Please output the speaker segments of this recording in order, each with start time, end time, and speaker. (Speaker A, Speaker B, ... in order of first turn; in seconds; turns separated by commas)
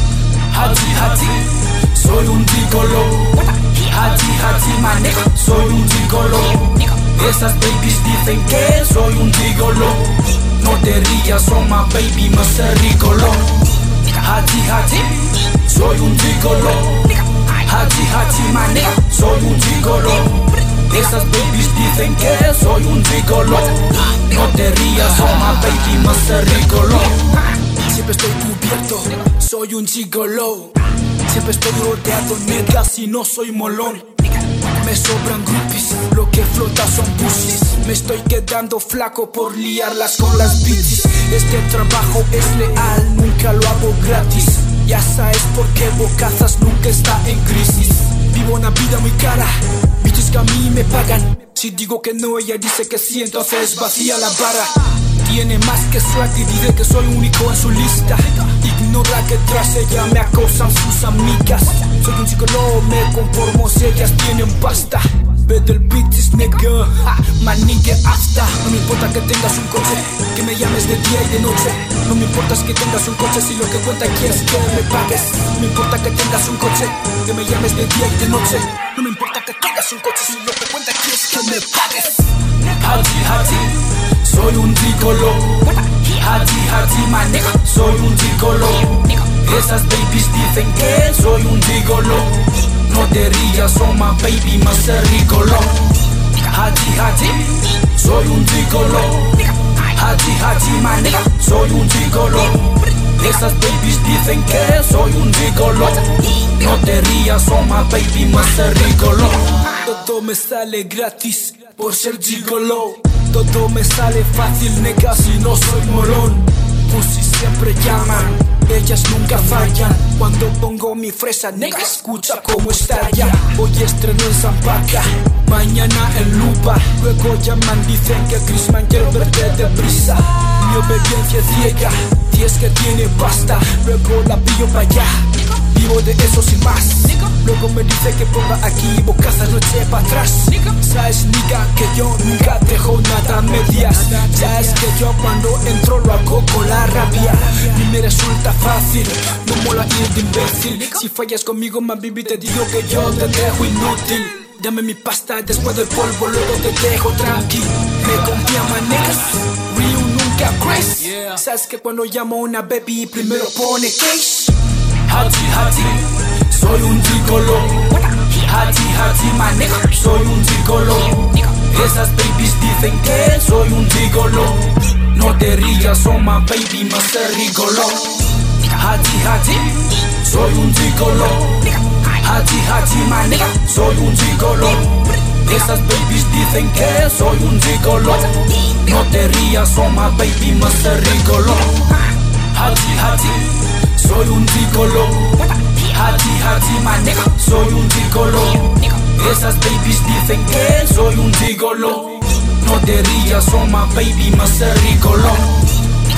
Speaker A: 0.5-205.8